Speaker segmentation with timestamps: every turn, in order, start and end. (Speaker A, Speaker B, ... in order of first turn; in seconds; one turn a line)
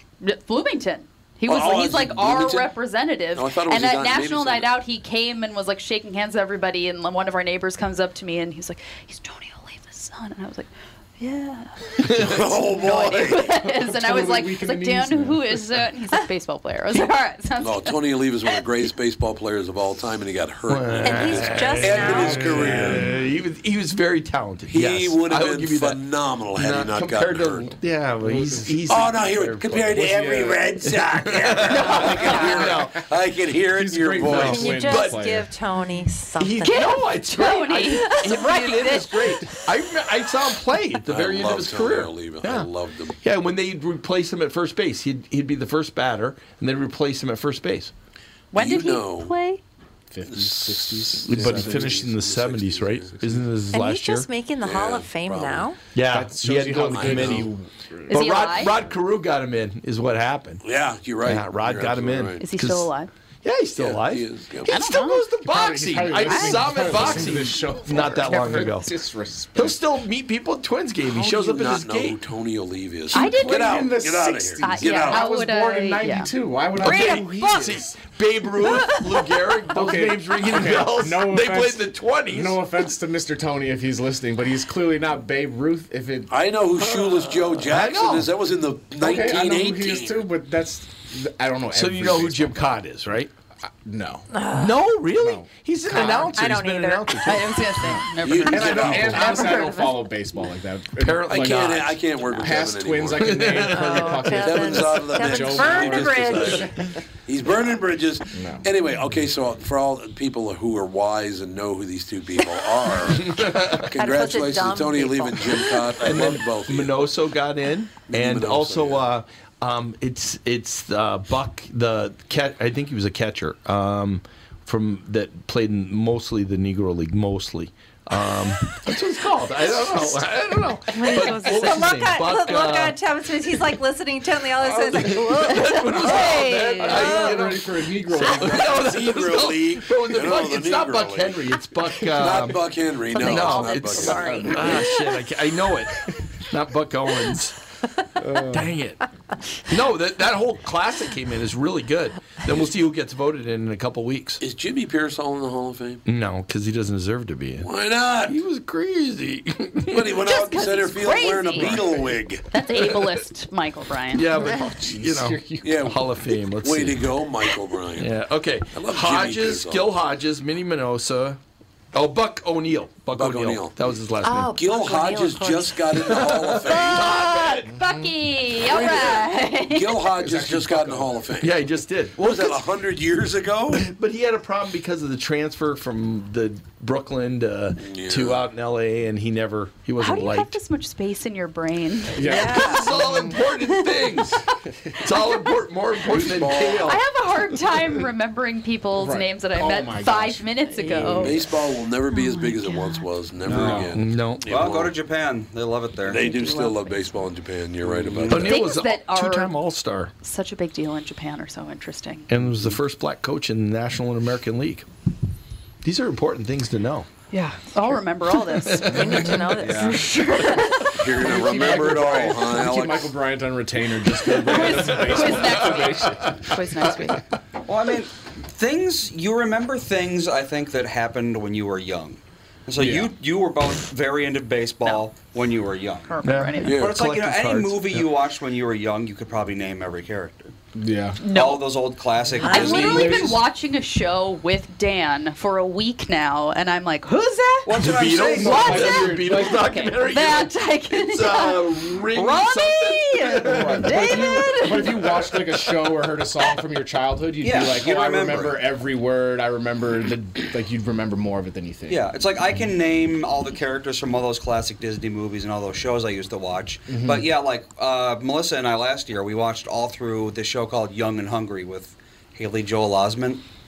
Speaker A: 0.2-18.7
Speaker B: 1.5-2.7
Speaker B: 3.3-4.7
Speaker C: 12.0-12.4
Speaker B: 12.2-13.5
Speaker D: 13.6-15.6
Speaker B: 17.6-23.1
Speaker C: 20.7-26.0
Speaker E: 21.0-22.8
Speaker D: 22.1-23.1
Speaker B: 24.7-27.7
Speaker C: 26.5-30.1
Speaker D: 27.7-29.0
Speaker B: 28.9-34.8
Speaker D: 29.9-30.7
Speaker C: 30.8-33.1
Speaker D: 31.7-33.0
Speaker D: 33.7-35.5
Speaker C: 34.2-35.2
Speaker E: 34.3-37.0
Speaker C: 36.4-42.7
Speaker A: 36.6-39.4
Speaker E: 37.9-39.6
Speaker B: 41.1-43.2
Speaker C: 43.2-47.9
Speaker A: 48.5-49.6
Speaker B: 48.5-49.3
Speaker D: 50.1-52.1
Speaker B: 50.3-53.2
Speaker C: 51.2-54.3
Speaker D: 53.1-53.4
Speaker E: 53.7-55.8
Speaker B: 54.6-55.7
Speaker C: 55.9-57.5
Speaker D: 56.0-58.3
Speaker B: 56.9-57.5
Speaker C: 58.1-60.6
Speaker A: 58.1-58.8
Speaker B: 60.6-62.4
Speaker C: 61.2-62.9
Speaker A: 62.4-63.1
Speaker C: 63.4-68.9
Speaker B: 63.8-64.7
Speaker A: 64.7-65.3
Speaker D: 65.4-69.8
Speaker A: 66.1-67.2
Speaker C: 69.5-72.2
Speaker B: 71.1-75.2
Speaker A: 73.1-74.0
Speaker D: 73.1-77.6
Speaker A: 74.6-76.3
Speaker E: 76.8-77.9
Speaker C: 76.8-82.6
Speaker D: 79.7-86.3
Speaker B: 86.3-90.3
Speaker C: 87.6-88.3
Speaker D: 89.0-92.6
Speaker C: 91.7-93.3
Speaker D: 93.8-94.3
Speaker E: 94.3-95.0
Speaker C: 94.5-97.6
Speaker D: 95.1-96.3
Speaker E: 95.8-97.5
Speaker A: 97.2-100.0
Speaker D: 97.8-106.7
Speaker B: 98.2-99.4
Speaker E: 99.2-99.9
Speaker C: 101.0-102.0
Speaker B: 101.3-103.5
Speaker C: 103.2-104.4
Speaker E: 103.7-106.9
Speaker B: 104.3-106.7
Speaker B: 107.2-117.1
Speaker D: 108.3-108.7
Speaker C: 113.2-113.9
Speaker E: 113.9-115.8
Speaker C: 116.0-133.6
Speaker B: 118.1-119.1
Speaker E: 129.6-130.2
Speaker E: 130.8-137.6
Speaker C: 134.6-142.7
Speaker D: 136.9-138.8
Speaker B: 138.3-141.5
Speaker B: 142.1-144.8
Speaker E: 143.1-145.2
Speaker C: 143.2-147.6
Speaker D: 144.3-144.6
Speaker D: 148.2-148.7
Speaker C: 148.4-149.0
Speaker C: 149.7-154.4
Speaker B: 154.4-156.0
Speaker C: 156.1-157.7
Speaker B: 157.6-158.4
Speaker C: 158.2-160.1
Speaker B: 159.9-162.4
Speaker A: 160.2-162.0
Speaker A: 162.5-164.5
Speaker C: 164.1-167.1
Speaker D: 164.3-165.8
Speaker B: 165.6-166.0
Speaker B: 166.5-168.2
Speaker C: 168.0-171.4
Speaker B: 168.7-169.9
Speaker C: 171.9-174.5
Speaker B: 173.1-173.8
Speaker E: 174.2-175.9
Speaker B: 174.5-177.2
Speaker C: 176.1-177.7
Speaker A: 176.6-180.1
Speaker D: 177.7-178.1
Speaker B: 178.6-181.6
Speaker D: 180.2-181.2
Speaker C: 181.4-182.6
Speaker B: 182.1-183.9
Speaker C: 183.8-190.6
Speaker B: 187.8-188.5
Speaker A: 190.0-192.7
Speaker D: 192.2-193.3
Speaker E: 192.2-192.9
Speaker C: 192.3-194.4
Speaker C: 195.0-197.0
Speaker B: 196.1-197.0
Speaker A: 196.8-203.1
Speaker D: 198.9-201.3
Speaker B: 201.0-204.9
Speaker F: 203.4-206.3
Speaker D: 203.4-203.9
Speaker C: 203.9-204.4
Speaker B: 206.0-208.7
Speaker A: 206.2-207.0
Speaker D: 207.9-208.3
Speaker C: 208.3-210.1
Speaker A: 208.3-209.5
Speaker A: 210.2-212.3
Speaker C: 212.3-214.8
Speaker C: 215.8-217.1
Speaker A: 217.3-221.0
Speaker C: 218.6-219.5
Speaker E: 218.8-220.2
Speaker F: 219.6-220.0
Speaker C: 220.4-220.8
Speaker B: 220.9-223.1
Speaker D: 221.2-226.5
Speaker C: 224.3-227.1
Speaker A: 224.4-227.2
Speaker F: 227.7-240.5
Speaker D: 232.8-233.1
Speaker A: 236.1-236.8
Speaker C: 236.2-238.1
Speaker B: 236.6-237.0
Speaker D: 240.7-241.2
Speaker A: 241.2-241.7
Speaker F: 241.2-243.4
Speaker E: 242.4-243.3
Speaker A: 242.4-247.7
Speaker D: 242.9-243.4
Speaker F: 247.7-249.2
Speaker C: 247.7-254.7
Speaker D: 247.8-249.9
Speaker A: 248.4-255.3
Speaker D: 253.4-262.0
Speaker F: 257.4-258.7
Speaker F: 261.9-273.4
Speaker D: 266.9-267.3